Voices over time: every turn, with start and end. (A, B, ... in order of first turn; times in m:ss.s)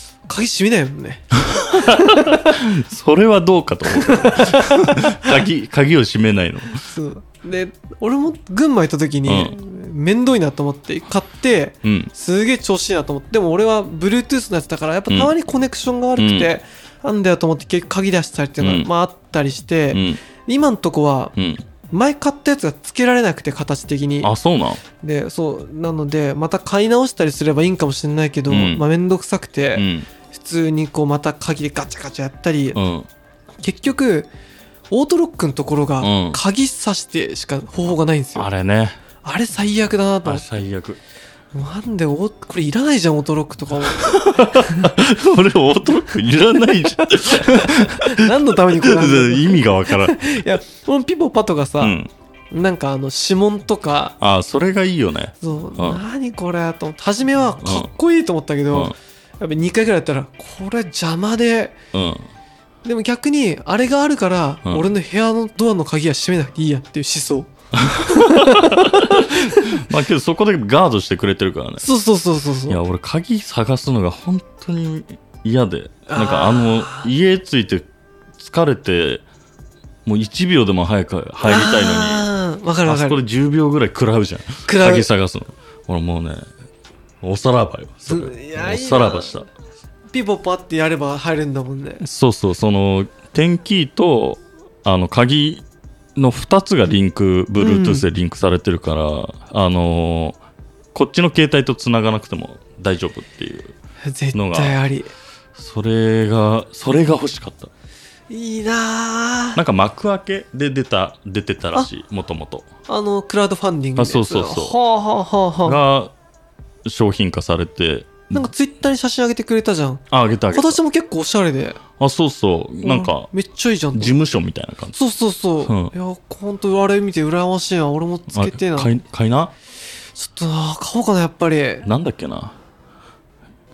0:00.3-0:02.4 A
0:01.7-0:06.8 B
0:03.9-0:05.3 A
0:06.8-0:21.3 A
0:09.2-0:09.6 B
0:11.8-0:12.1 B
0:16.2-0:16.5 B
0:18.6-0:18.9 B
0:19.9-0:20.2 B
0:21.4-0:21.6 B
0:21.9-0:24.3 A
0:24.2-0:24.8 B
0:25.0-0:32.8 A
0:28.5-0:28.8 B
0:29.8-0:30.1 B
0:32.7-0:33.1 B
0:33.6-0:34.3 A
0:34.9-0:38.5 A
0:36.0-0:36.4 B
0:38.4-0:39.0 B
0:39.2-0:40.4 A
0:40.2-0:41.0 B
0:41.5-0:44.9 A
0:44.0-0:50.5 B
0:47.3-0:52.0 A
0:51.8-0:52.1 B
0:52.5-0:54.1 A
0:54.2-0:56.0 B
0:55.4-1:01.8 A
0:57.6-0:57.9 B
1:01.9-1:02.3 B
1:02.8-1:09.3 A
1:07.7-1:11.9 B
1:11.8-1:12.8 A
1:12.7-1:17.9 B
1:16.1-1:17.1 A
1:18.4-1:19.2 B
1:20.0-1:22.3 B
1:21.4-1:23.2 A
1:22.8-1:26.5 B
1:24.7-1:25.1 A
1:27.2-1:29.5 B
1:28.1-1:29.4 A
1:30.1-1:32.0 A
1:32.0-1:35.6 B
1:36.2-1:40.4 B
1:37.6-1:38.0 A
1:40.9-1:43.7 B
1:44.0-1:45.1 A
1:44.3-1:44.8 B
1:45.6-1:47.7 B
1:48.3-1:49.6 A
1:49.6-1:52.7 B
1:52.9-1:55.8 A
1:54.0-1:54.8 B
1:55.6-1:56.1 B
1:56.9-1:58.5 B
1:58.3-2:01.8 A
2:00.1-2:00.8 B
2:02.0-2:03.3 B
2:02.8-2:04.2 A
2:03.9-2:05.0 B
2:04.9-2:08.9 A
2:05.6-2:05.9 B
2:08.3-2:09.5 B
2:10.2-2:11.9 A
2:11.8-2:12.6 B